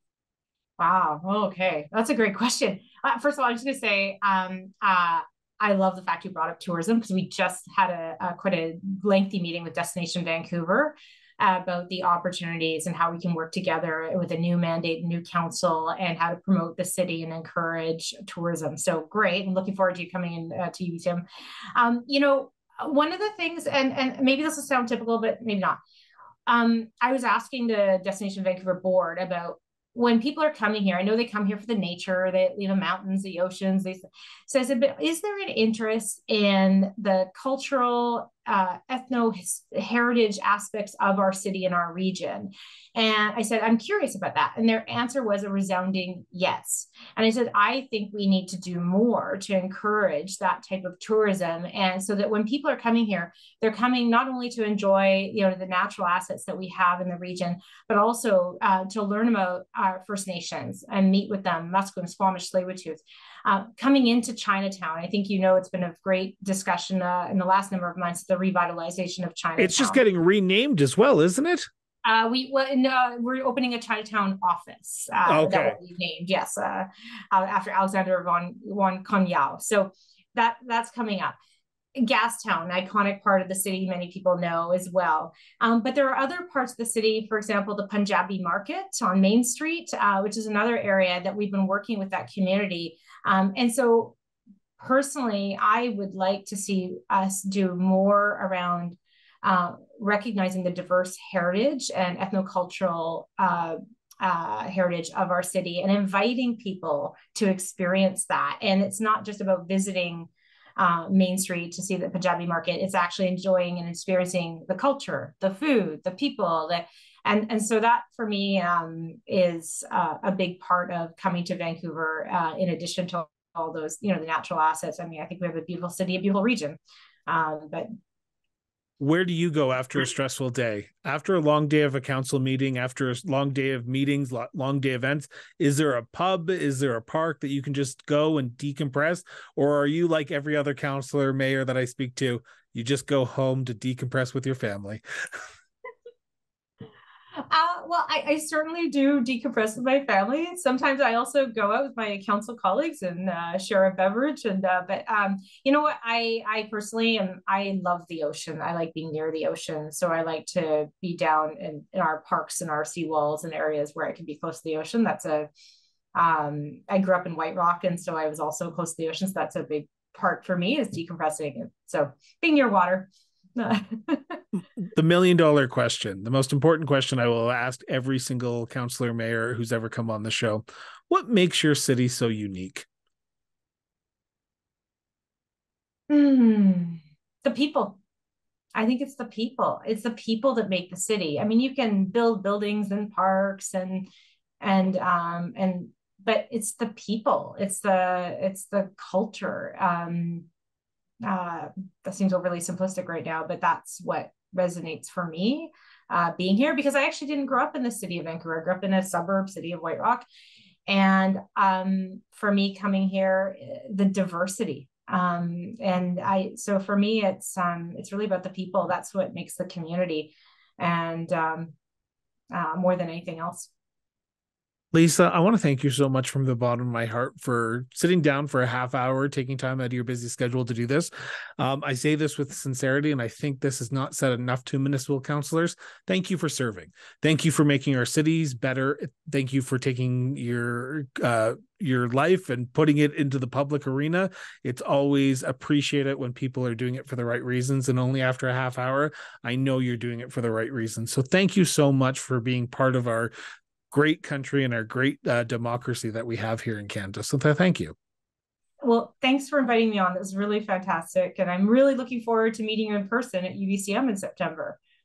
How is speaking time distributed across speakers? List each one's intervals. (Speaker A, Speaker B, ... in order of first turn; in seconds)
Speaker A: 0.8-21.2, 21.7-25.8, 26.4-70.0, 72.0-81.3, 81.9-94.2, 94.8-127.9, 147.3-165.5, 166.1-174.4, 186.1-188.0, 188.7-194.1, 194.6-200.5, 201.2-210.2, 210.9-221.7, 222.5-223.7, 258.8-264.8
Speaker B: 69.6-71.7, 75.2-75.8, 129.0-145.0, 174.9-182.9, 224.9-253.3, 253.9-257.9